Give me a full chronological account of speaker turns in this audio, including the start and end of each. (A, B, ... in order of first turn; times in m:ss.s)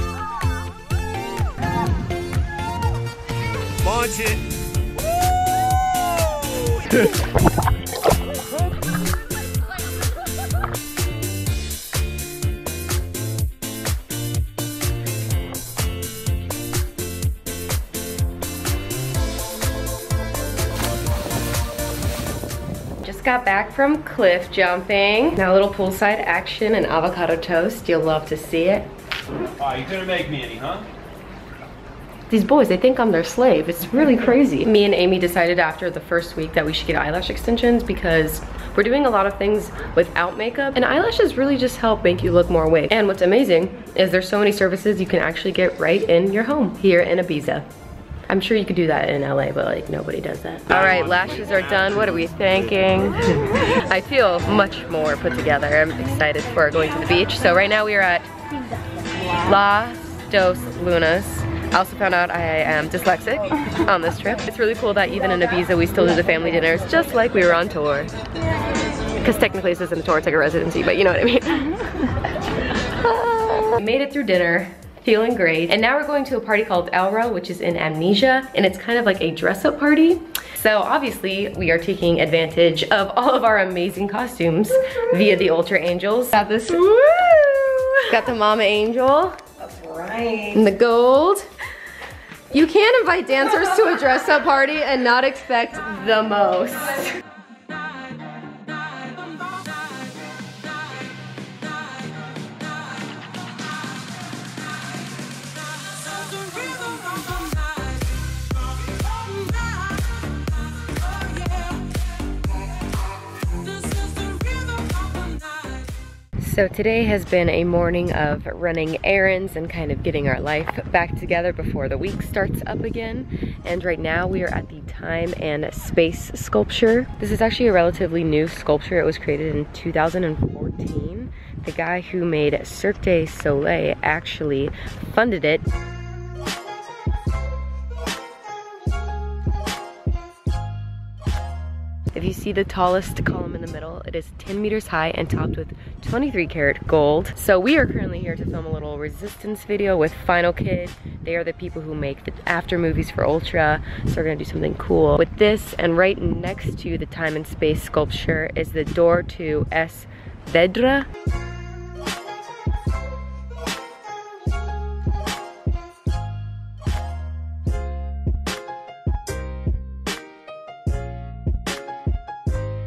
0:03.8-0:04.5 A
0:23.0-0:28.9 B
0:29.6-0:30.9 A
0:32.3-0:47.7 B
0:48.3-0:58.3 B
0:59.3-1:08.1 B
1:09.2-1:27.0 B
1:26.9-1:28.0 C
1:28.1-1:29.5 B
1:29.6-1:30.5 C
1:30.5-1:31.5 B
1:32.5-1:37.2 B
1:56.4-2:15.6 B
2:22.1-2:41.1 B